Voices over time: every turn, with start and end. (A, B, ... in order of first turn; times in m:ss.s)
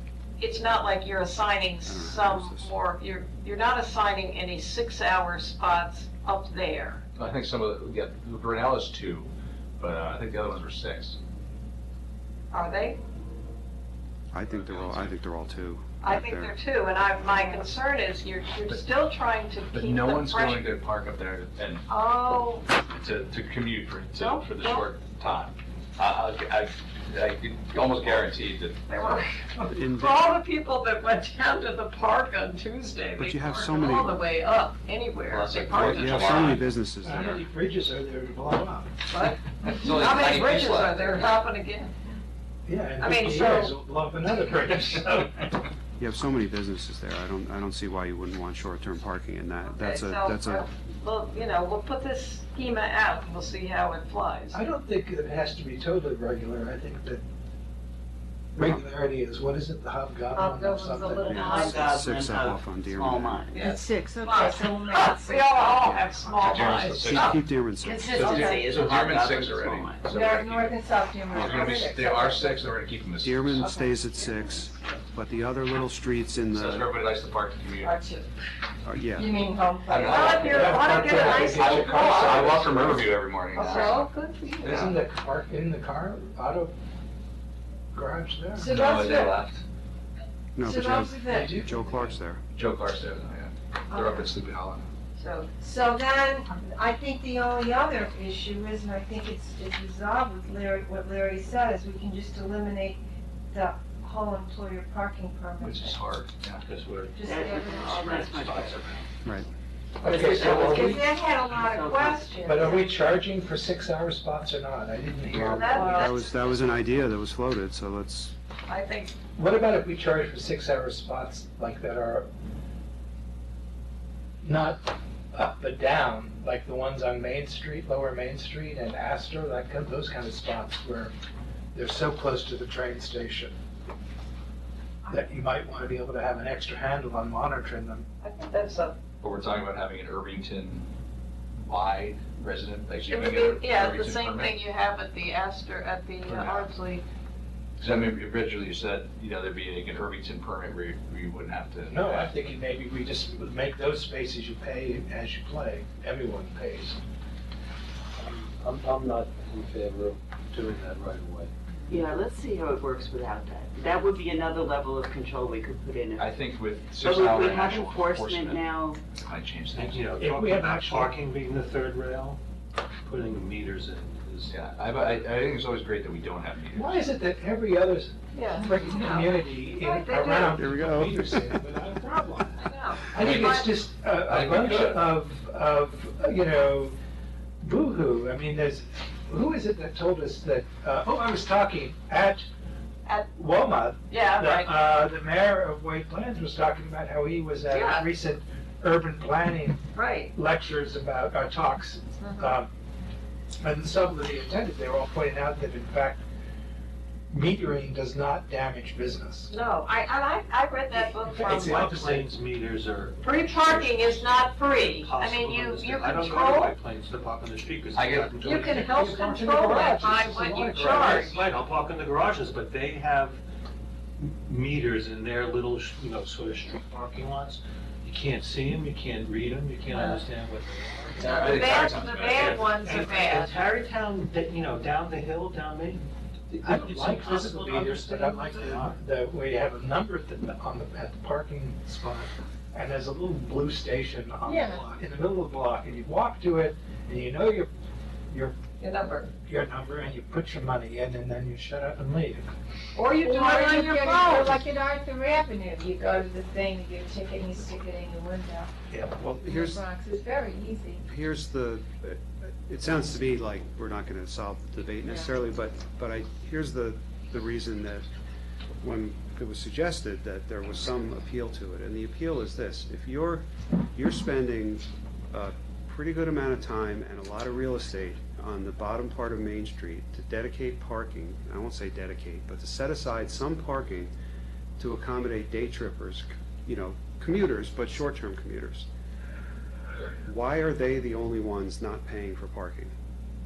0:00.4-0:07.0 A
0:01.8-0:02.7 B
0:07.2-0:11.2 C
0:12.5-0:13.0 A
0:14.3-0:16.6 B
0:14.5-0:15.2 C
0:16.0-0:20.6 A
0:17.4-0:17.7 D
0:19.7-0:21.9 C
0:21.9-0:22.7 A
0:22.8-0:28.9 C
0:24.2-0:24.9 A
0:28.9-0:36.6 A
0:29.7-0:30.4 B
0:33.2-0:34.2 B
0:35.3-0:36.7 C
0:35.7-0:37.4 B
0:37.0-0:38.9 E
0:39.1-0:41.9 A
0:39.6-0:41.0 C
0:42.7-0:45.5 E
0:43.0-0:43.8 A
0:46.0-0:50.7 B
0:49.7-0:54.6 A
0:54.5-0:57.2 E
0:58.6-1:01.4 E
1:00.3-1:01.9 A
1:01.3-1:03.4 B
1:01.5-1:03.5 F
1:03.5-1:07.4 A
1:03.6-1:05.6 D
1:05.6-1:08.2 B
1:06.4-1:07.4 C
1:07.8-1:10.1 F
1:08.1-1:13.7 C
1:10.1-1:12.6 D
1:11.3-1:11.9 B
1:13.2-1:16.9 B
1:13.6-1:14.9 D
1:16.5-1:18.0 C
1:17.8-1:18.3 D
1:18.8-1:19.4 B
1:19.1-1:20.7 D
1:19.9-1:24.1 C
1:20.0-1:22.6 A
1:20.4-1:23.1 E
1:23.6-1:24.7 A
1:23.6-1:24.0 D
1:24.6-1:25.0 C
1:24.6-1:26.7 E
1:27.9-1:28.8 E
1:28.6-1:29.4 D
1:28.6-1:29.6 C
1:30.6-1:32.4 B
1:30.6-1:31.5 D
1:31.2-1:32.2 E
1:32.5-1:34.9 C
1:33.9-1:34.3 D
1:35.2-1:35.5 A
1:35.5-1:43.0 D
1:43.5-1:46.0 D
1:45.6-1:46.6 C
1:46.6-1:49.1 G
1:47.2-1:48.3 D
1:47.2-1:48.8 F
1:50.0-1:51.1 E
1:50.1-1:52.3 F
1:50.4-1:52.9 D
1:52.4-1:56.1 E
1:55.3-1:58.3 B
1:55.4-1:56.7 A
1:58.7-1:59.2 A
1:59.4-2:02.3 E
2:04.4-2:11.1 E
2:11.7-2:13.6 E
2:15.1-2:18.1 E
2:18.2-2:19.0 A
2:19.2-2:20.9 C
2:21.6-2:24.6 C
2:23.1-2:27.0 A
2:26.2-2:26.7 C
2:27.8-2:32.3 C
2:31.9-2:37.0 E
2:38.2-2:41.5 G
2:41.9-2:46.4 F
2:46.2-2:50.1 C
2:47.0-2:49.0 F
2:49.7-2:52.4 G
2:50.2-2:51.1 E
2:53.0-2:54.6 G
2:54.5-2:57.0 C
2:56.7-3:07.0 E
2:58.3-3:00.6 A
3:00.6-3:01.6 B
3:02.6-3:03.7 A
3:03.2-3:03.7 C
3:04.3-3:05.0 C
3:07.6-3:12.5 E
3:13.1-3:13.3 A
3:13.4-3:19.8 E
3:14.1-3:14.7 A
3:17.7-3:18.1 A
3:20.0-3:20.3 A
3:20.3-3:22.7 E
3:22.2-3:22.6 A
3:23.6-3:26.2 E
3:27.3-3:29.5 E
3:29.5-3:31.9 A
3:31.3-3:43.4 G
3:31.3-3:32.3 E
3:33.2-3:36.8 A
3:37.9-3:38.4 C
3:38.4-3:41.4 A
3:38.8-3:41.3 E
3:44.2-3:59.0 G
3:49.9-3:50.2 A
3:51.2-3:52.7 C
3:51.2-3:53.6 A
3:56.6-4:07.7 E
4:04.5-4:04.8 D
4:08.3-4:08.6 E
4:08.8-4:09.3 A
4:09.5-4:12.5 E
4:13.0-4:14.6 A
4:13.2-4:18.7 D
4:19.2-4:19.8 B
4:19.4-4:21.0 D
4:21.0-4:28.1 B
4:28.8-4:44.1 B
4:44.8-4:48.9 B
4:50.2-4:52.9 B